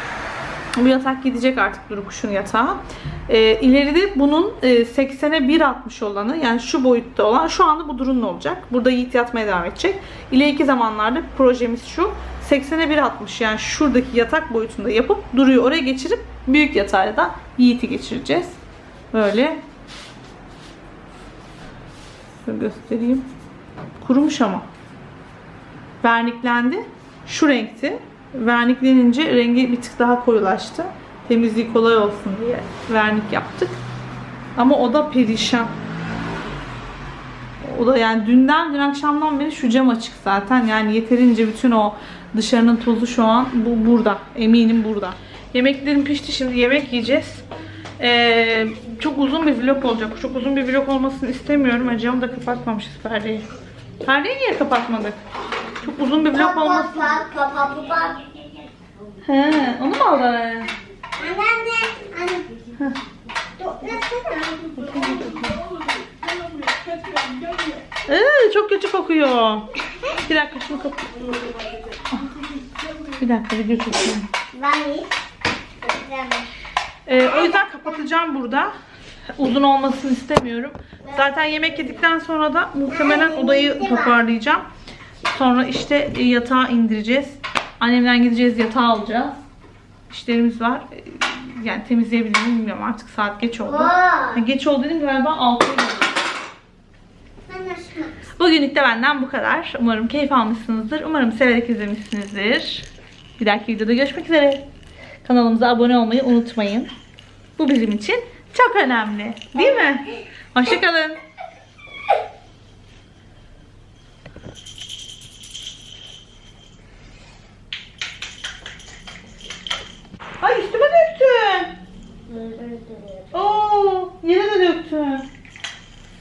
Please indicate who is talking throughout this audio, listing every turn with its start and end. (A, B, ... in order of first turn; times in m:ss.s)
0:00.8-0:18.6 A
0:19.1-0:19.6 A
0:22.4-0:23.2 A
0:24.0-0:24.7 A
0:26.0-0:33.8 A
0:34.6-0:35.7 A
0:37.6-0:47.4 A
0:48.0-0:53.4 A
0:54.0-0:55.2 A
0:55.8-0:57.1 A
0:56.3-0:58.2 B
0:59.2-1:00.7 A
1:01.2-1:02.5 B
1:03.6-1:04.8 B
1:04.7-1:05.6 A
1:07.1-1:07.5 B
1:08.0-1:11.2 A
1:13.2-1:14.3 A
1:14.5-1:15.1 B
1:15.8-1:16.5 B
1:17.1-1:18.7 A
1:19.4-1:24.6 A
1:22.9-1:24.1 B
1:25.3-1:29.4 A
1:30.1-1:36.2 A
1:33.6-1:34.4 B
1:37.5-1:38.2 B
1:38.4-1:42.9 A
1:43.4-1:44.6 A
1:45.2-1:46.9 A
1:47.6-1:51.2 A
2:00.4-2:01.7 A
2:02.3-2:03.3 B
2:03.3-2:05.2 A